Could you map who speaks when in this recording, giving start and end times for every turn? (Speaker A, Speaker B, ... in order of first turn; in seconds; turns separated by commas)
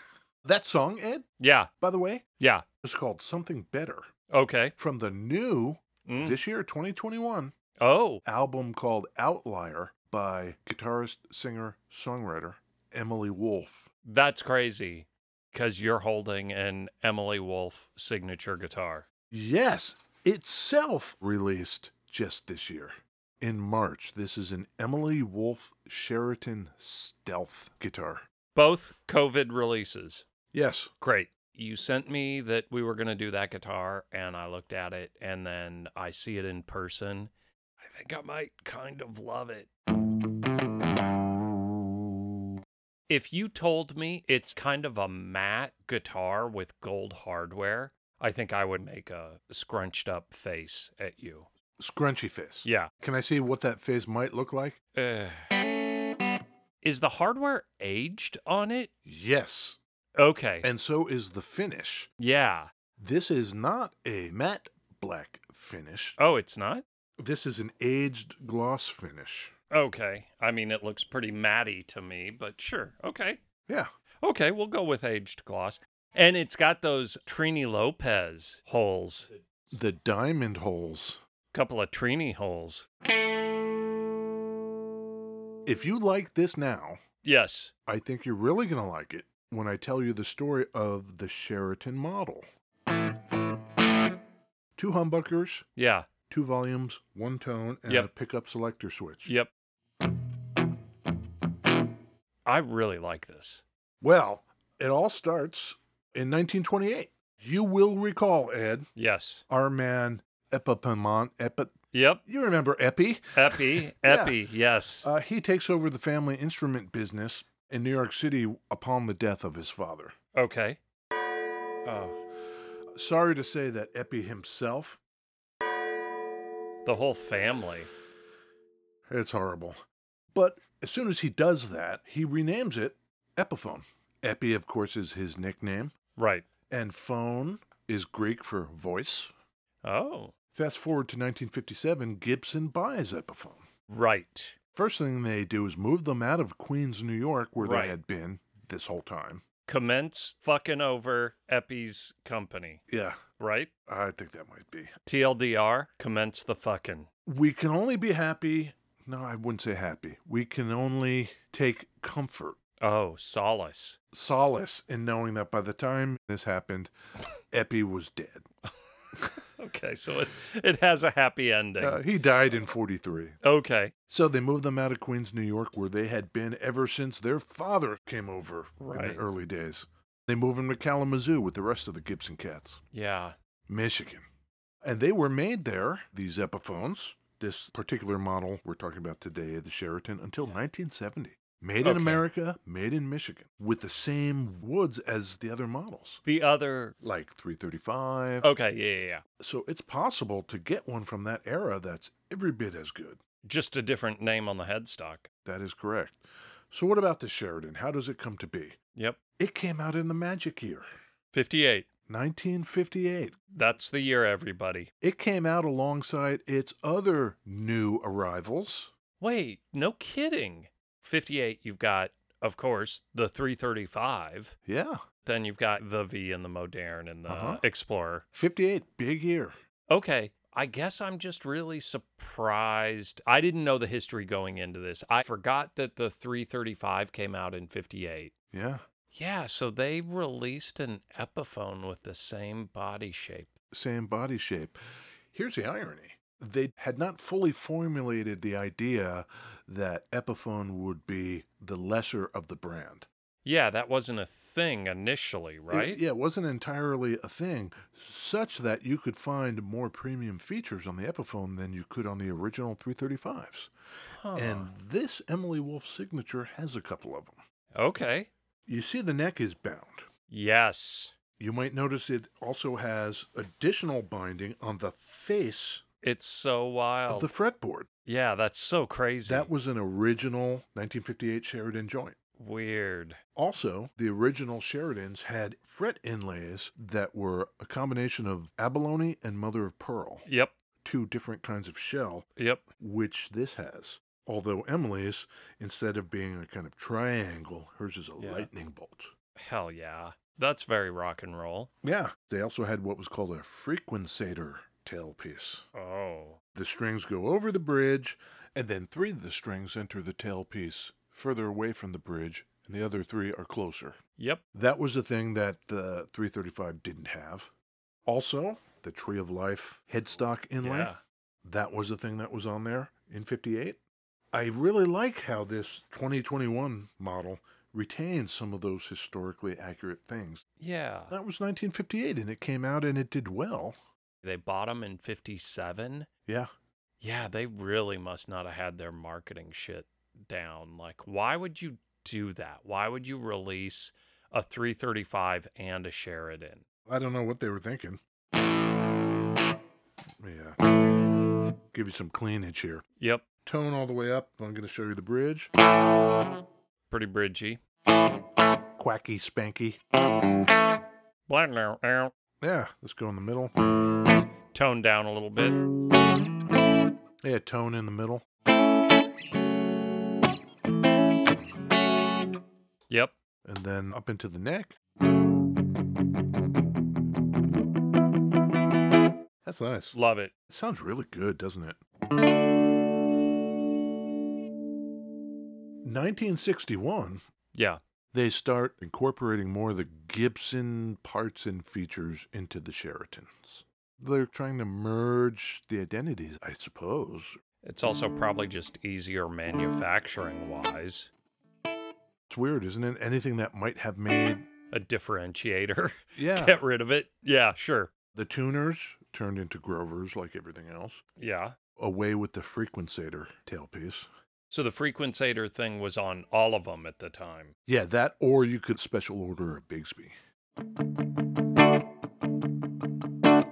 Speaker A: 0.4-1.2, Speaker B: 1.4-1.7, Speaker A: 1.8-2.2, Speaker B: 2.4-2.6, Speaker A: 2.8-4.1, Speaker B: 4.3-4.7, Speaker A: 4.8-7.5, Speaker B: 6.1-6.4, Speaker B: 7.8-8.2, Speaker A: 8.2-13.9, Speaker B: 14.0-19.1, Speaker A: 19.3-28.2, Speaker B: 28.6-30.2, Speaker A: 30.5-30.9, Speaker B: 31.0-39.7, Speaker B: 43.1-51.5, Speaker A: 51.8-54.8, Speaker B: 52.6-52.9, Speaker B: 54.9-55.5, Speaker B: 56.8-58.9, Speaker A: 59.0-59.8, Speaker B: 60.2-60.7, Speaker A: 60.6-62.1, Speaker B: 62.2-62.7, Speaker A: 63.0-66.2, Speaker B: 66.2-66.8, Speaker A: 67.2-69.5, Speaker B: 69.7-73.4, Speaker B: 74.2-79.3, Speaker A: 79.7-81.2, Speaker B: 81.5-82.9, Speaker A: 85.7-87.0, Speaker B: 87.2-87.7, Speaker A: 87.9-92.5, Speaker A: 94.8-95.7, Speaker B: 95.8-96.1, Speaker A: 96.3-99.3, Speaker B: 99.2-99.5, Speaker B: 102.4-103.6, Speaker A: 104.0-108.9, Speaker B: 109.0-109.4, Speaker A: 109.5-111.7, Speaker B: 111.9-112.2, Speaker A: 112.2-114.4, Speaker B: 113.3-115.1, Speaker A: 115.0-120.1, Speaker B: 120.3-120.8, Speaker B: 121.8-122.2, Speaker A: 123.0-125.0, Speaker B: 126.8-127.9, Speaker A: 129.1-129.8, Speaker A: 130.3-135.9, Speaker B: 136.2-136.4, Speaker A: 136.7-139.3, Speaker B: 139.8-140.3, Speaker A: 140.5-143.6, Speaker B: 143.9-144.6, Speaker A: 144.7-149.4, Speaker B: 147.6-148.0, Speaker B: 149.7-152.8, Speaker A: 152.9-153.2, Speaker B: 153.4-153.7, Speaker A: 153.9-154.9, Speaker B: 155.1-157.1, Speaker A: 157.3-162.6, Speaker B: 162.8-164.0, Speaker A: 164.1-166.9, Speaker A: 167.5-168.4, Speaker B: 169.2-172.0, Speaker A: 171.8-173.4, Speaker B: 173.4-173.9, Speaker A: 174.1-182.8, Speaker B: 178.8-179.2, Speaker B: 182.9-183.3, Speaker A: 183.7-184.2, Speaker A: 184.8-196.2, Speaker B: 191.8-192.2, Speaker B: 196.3-196.9, Speaker A: 197.0-198.5, Speaker B: 198.4-199.2, Speaker A: 199.4-203.2, Speaker B: 203.4-205.3, Speaker A: 205.4-208.8, Speaker A: 209.4-210.9, Speaker B: 211.3-211.9, Speaker A: 212.1-213.4, Speaker B: 213.5-214.9, Speaker A: 215.0-218.9, Speaker B: 219.2-224.6, Speaker A: 224.7-225.0, Speaker B: 225.2-228.2, Speaker A: 227.3-227.6, Speaker A: 228.3-229.6, Speaker B: 229.9-238.3, Speaker A: 238.5-238.8, Speaker B: 239.1-243.5, Speaker A: 243.7-244.8, Speaker A: 245.3-253.1, Speaker B: 253.4-256.0, Speaker A: 255.7-263.7, Speaker B: 264.1-264.7, Speaker A: 264.3-267.4, Speaker B: 267.8-268.3, Speaker A: 268.7-270.1, Speaker B: 270.3-271.1, Speaker A: 271.4-275.8, Speaker B: 276.0-277.3, Speaker A: 277.1-277.9, Speaker B: 278.1-279.5, Speaker A: 279.3-282.2, Speaker B: 282.4-283.2, Speaker A: 283.4-290.3, Speaker B: 290.3-290.6, Speaker A: 290.8-292.3, Speaker B: 292.4-292.7, Speaker A: 292.8-299.1, Speaker B: 298.2-298.5, Speaker B: 299.4-301.7, Speaker A: 301.8-305.7, Speaker B: 305.7-306.4, Speaker A: 306.6-314.0, Speaker A: 314.5-317.5, Speaker A: 318.1-323.8, Speaker B: 320.6-321.0, Speaker A: 324.3-330.4, Speaker B: 330.6-331.1, Speaker A: 331.1-333.8, Speaker B: 334.2-336.1, Speaker B: 337.0-346.6, Speaker A: 346.9-348.0, Speaker A: 350.2-350.6, Speaker A: 351.7-352.8, Speaker B: 353.0-353.2, Speaker A: 353.4-355.5, Speaker B: 356.9-357.6, Speaker A: 358.8-359.8, Speaker B: 361.3-362.1, Speaker A: 362.4-363.5, Speaker B: 364.5-365.6, Speaker A: 367.2-368.2, Speaker B: 372.9-373.1, Speaker A: 373.4-374.8, Speaker A: 379.4-379.9, Speaker B: 379.9-380.3, Speaker A: 380.5-381.8, Speaker A: 385.8-387.2, Speaker B: 387.5-387.8, Speaker A: 388.1-397.4, Speaker B: 397.6-401.1, Speaker A: 402.3-404.4, Speaker B: 404.7-407.9, Speaker A: 406.1-406.6, Speaker A: 408.1-411.0, Speaker B: 411.2-411.6, Speaker A: 411.8-414.1, Speaker B: 414.5-417.5, Speaker A: 417.7-420.1